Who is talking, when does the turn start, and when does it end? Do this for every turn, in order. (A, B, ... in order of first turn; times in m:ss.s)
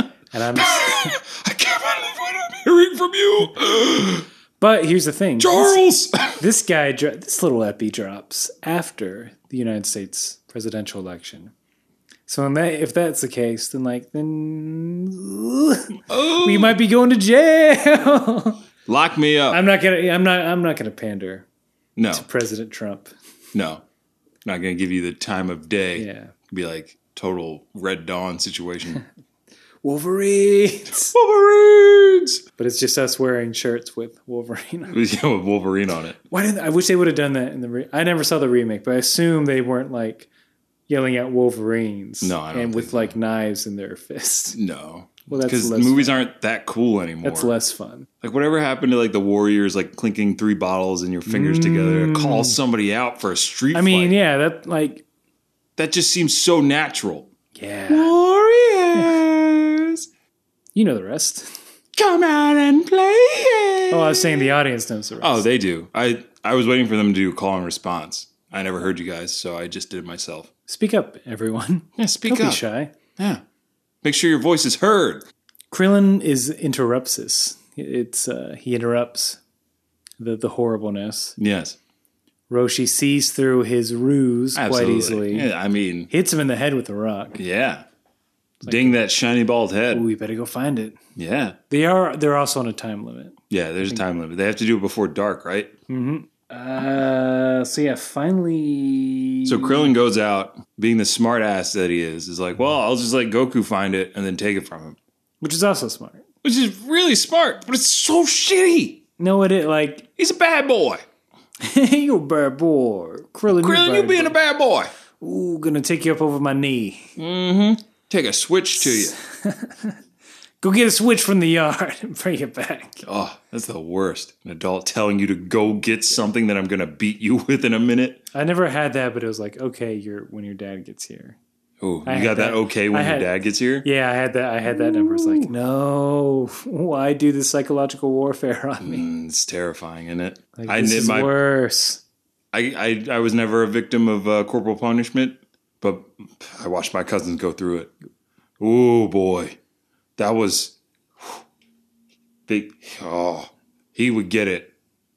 0:00.3-0:01.2 A
0:00.6-0:04.3 B
0:04.6-0:05.8 A
0:05.4-0:06.4 B
0:06.4-0:11.5 A
0:12.3-0:18.6 A
0:16.1-0:16.8 B
0:18.9-0:19.6 B
0:19.5-0:21.5 A
0:22.0-0:22.3 B
0:22.1-0:23.1 A
0:23.5-0:23.8 B
0:24.4-0:29.0 B
0:26.0-0:26.3 A
0:29.8-0:31.2 A
0:30.9-0:32.4 B
0:32.6-0:35.0 A
0:34.9-0:36.2 B
0:36.3-0:40.3 A
0:40.9-0:44.6 A
0:42.2-0:43.2 B
0:44.5-0:47.5 B
0:45.3-0:46.2 A
0:47.2-0:48.1 A
0:48.2-0:54.2 B
0:51.3-0:52.6 A
0:53.7-0:55.0 A
0:55.8-0:57.3 B
0:57.6-0:58.1 A
0:57.9-1:00.1 B
1:00.8-1:01.6 A
1:01.9-1:04.5 B
1:03.9-1:05.4 A
1:05.2-1:10.5 B
1:10.7-1:12.9 A
1:12.0-1:12.6 B
1:13.2-1:13.4 B
1:14.0-1:15.3 B
1:15.7-1:19.4 A
1:20.2-1:21.4 A
1:21.4-1:21.8 B
1:22.5-1:25.5 A
1:24.6-1:26.1 B
1:26.1-1:27.4 A
1:27.4-1:27.8 B
1:28.6-1:29.0 A
1:28.6-1:30.1 B
1:29.9-1:31.0 A
1:31.2-1:31.6 B
1:31.7-1:33.4 A
1:33.5-1:35.8 B
1:35.9-1:39.9 A
1:39.4-1:45.0 B
1:45.4-1:46.2 A
1:46.4-1:49.0 B
1:49.2-1:50.1 A
1:50.2-1:51.0 B
1:51.6-1:54.4 A
1:53.5-1:54.9 B
1:55.2-1:57.2 A
1:57.2-1:59.2 B
1:58.8-2:00.0 A
2:00.6-2:03.0 A
2:03.0-2:08.2 B
2:08.3-2:11.4 A
2:11.8-2:13.9 B
2:12.1-2:13.3 A
2:13.8-2:19.0 A
2:14.7-2:15.5 B
2:18.8-2:21.4 B
2:20.6-2:22.0 A
2:22.5-2:27.9 B
2:28.6-2:29.6 B
2:30.2-2:31.4 B
2:32.5-2:34.7 B